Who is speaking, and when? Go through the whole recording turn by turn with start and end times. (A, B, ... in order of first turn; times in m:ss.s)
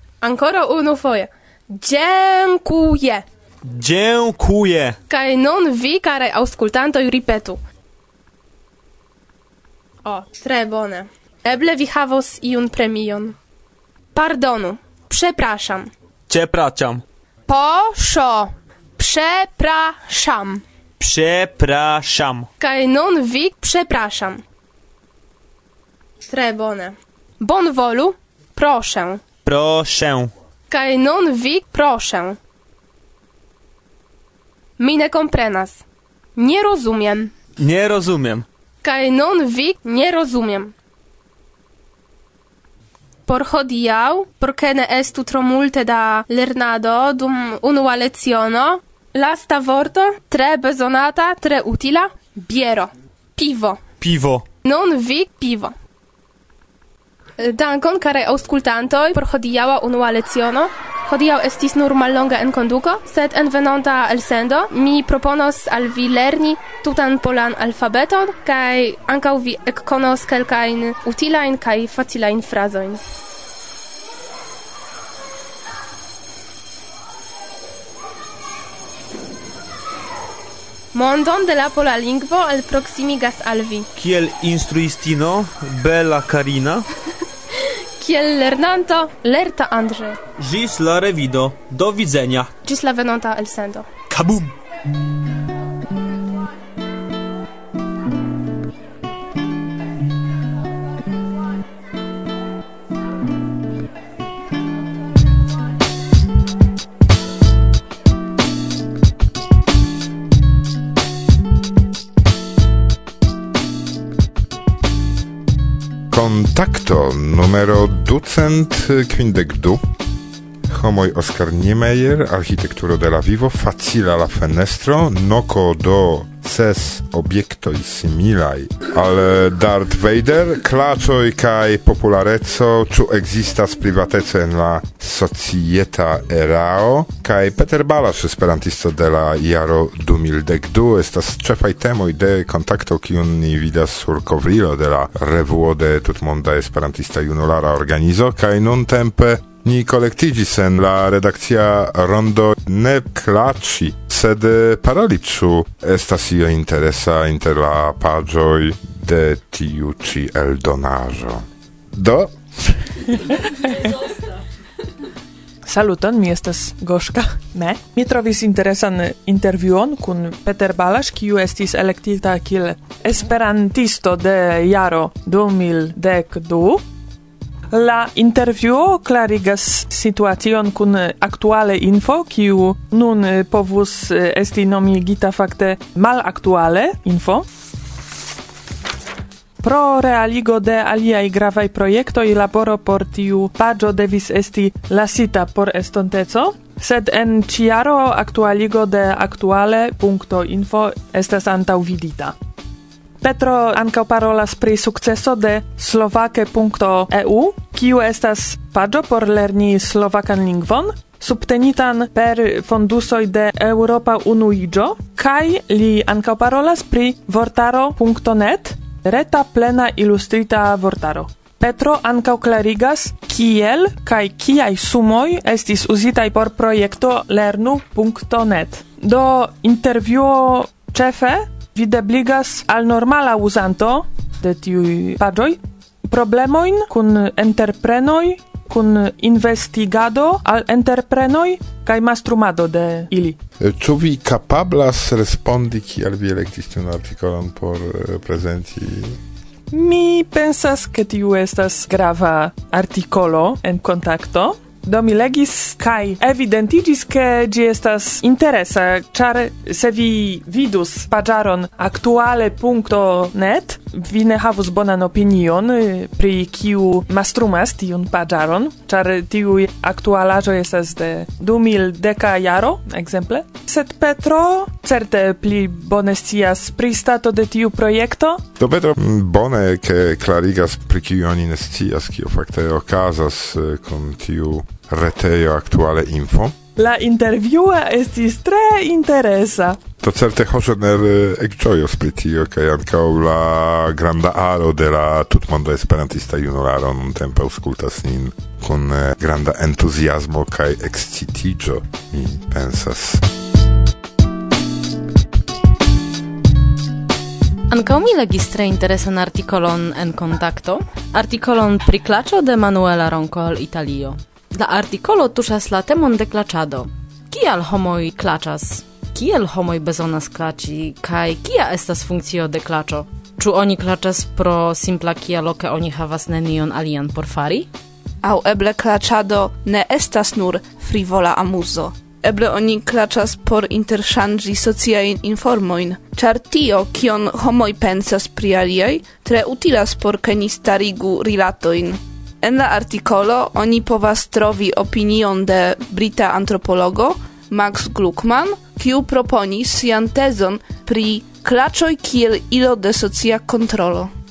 0:00.2-0:03.3 A
0:03.6-0:05.0 B
0:05.1-0:07.6 A
0:10.0-0:13.4 A
0:14.1-0:15.9 A
0:16.3-0:17.0 B
0:17.5-0:20.6 A
0:21.0-0:22.5 B
0:22.6-0:24.4 A
0:26.3-0:29.2 A
0:29.4-0:30.3 B
0:30.7-0:32.4 A
0:34.8-0:35.8 A
0:36.4-0:37.3 A
0:37.6-0:38.4 B
0:38.8-0:40.7 A
0:43.3-0:53.8 A
0:54.0-0:54.4 B
0:54.6-0:55.8 A
0:57.4-1:13.1 A
1:20.9-1:23.9 A
1:24.0-1:26.9 B
1:27.6-1:30.2 A
1:30.4-1:32.5 B
1:32.6-1:33.9 A
1:34.1-1:34.5 B
1:56.1-1:59.8 C
2:00.7-2:42.8 C
2:45.6-2:56.8 D
2:57.7-3:07.5 D
3:09.6-3:22.4 D
3:23.2-4:03.4 D
4:03.6-4:09.2 C
4:09.7-4:38.4 D
4:38.6-4:46.6 C
4:46.8-4:49.8 D
4:50.0-5:03.2 C
5:07.7-5:27.7 E
5:28.2-5:54.1 F